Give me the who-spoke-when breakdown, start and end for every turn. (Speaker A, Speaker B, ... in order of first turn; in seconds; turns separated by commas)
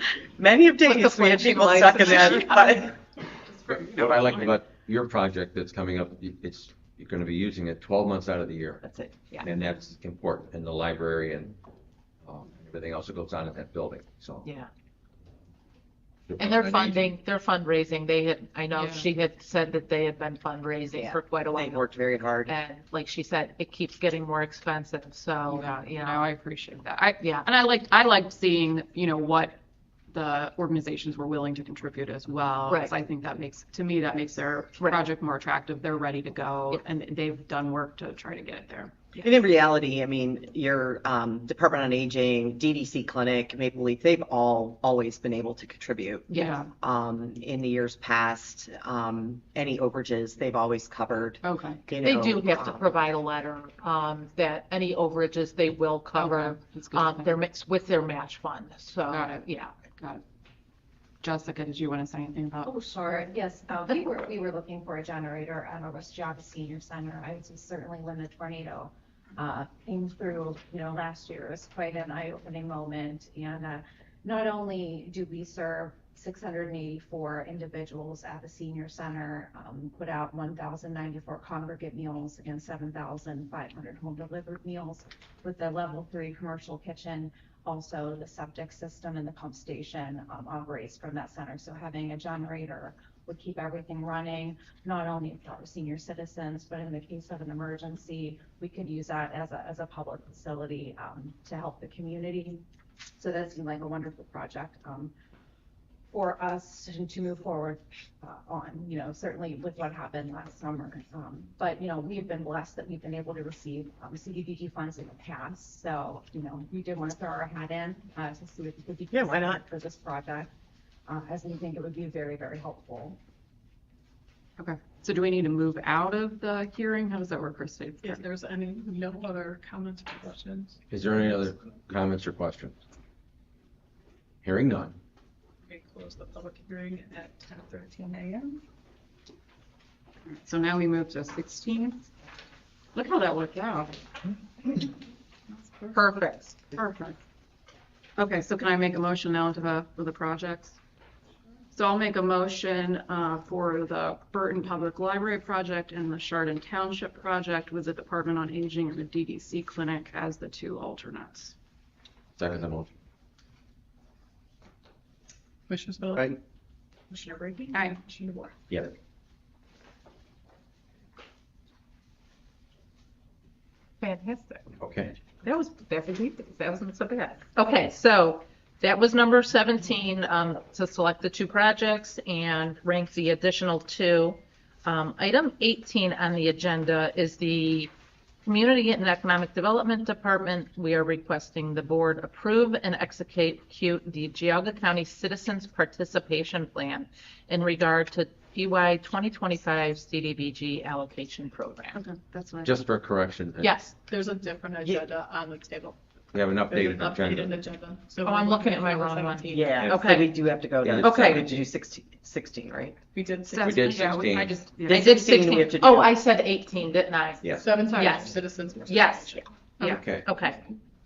Speaker A: 0.3-3.0, Speaker B: 0.8-2.9, Speaker C: 3.7-8.8, Speaker B: 8.8-9.5, Speaker C: 9.4-11.6, Speaker C: 12.2-14.5, Speaker B: 14.4-14.7, Speaker C: 16.3-17.1, Speaker B: 16.4-21.9, Speaker D: 18.7-19.1, Speaker A: 20.9-22.5, Speaker B: 22.5-26.2, Speaker D: 25.5-29.6, Speaker B: 27.2-27.5, Speaker D: 30.1-39.0, Speaker B: 32.7-32.9, Speaker B: 34.8-35.1, Speaker A: 39.2-53.0, Speaker D: 46.3-46.7, Speaker D: 51.4-51.8, Speaker B: 52.0-59.7, Speaker D: 56.1-57.4, Speaker D: 59.1-60.2, Speaker D: 61.2-62.7, Speaker E: 62.6-102.6, Speaker E: 103.2-105.1, Speaker E: 106.1-120.5, Speaker A: 119.1-119.6, Speaker E: 121.1-123.2, Speaker D: 124.6-128.2, Speaker F: 128.0-130.8, Speaker C: 130.9-132.8, Speaker C: 134.4-135.0, Speaker F: 135.7-138.6, Speaker D: 140.3-142.1, Speaker D: 142.9-144.0, Speaker D: 145.5-146.0, Speaker B: 145.9-146.6, Speaker D: 146.7-147.2, Speaker D: 148.2-150.8, Speaker D: 151.7-161.5, Speaker C: 162.4-162.9, Speaker F: 165.7-166.4, Speaker F: 167.1-168.5, Speaker D: 167.7-168.0, Speaker B: 174.0-174.7, Speaker C: 174.8-175.2, Speaker B: 175.4-187.9, Speaker B: 188.4-202.0, Speaker D: 201.9-202.8, Speaker C: 202.6-203.8, Speaker B: 203.6-203.9, Speaker F: 204.1-206.0, Speaker C: 206.3-207.6, Speaker F: 206.6-209.8, Speaker B: 208.2-210.3, Speaker A: 209.5-213.0, Speaker C: 209.8-210.1, Speaker C: 210.8-211.5, Speaker B: 211.0-211.4, Speaker F: 213.1-213.8, Speaker D: 213.5-215.1, Speaker C: 213.6-214.6, Speaker A: 214.8-216.1, Speaker B: 214.9-220.6, Speaker F: 217.6-219.5, Speaker D: 219.8-220.1, Speaker C: 219.8-220.3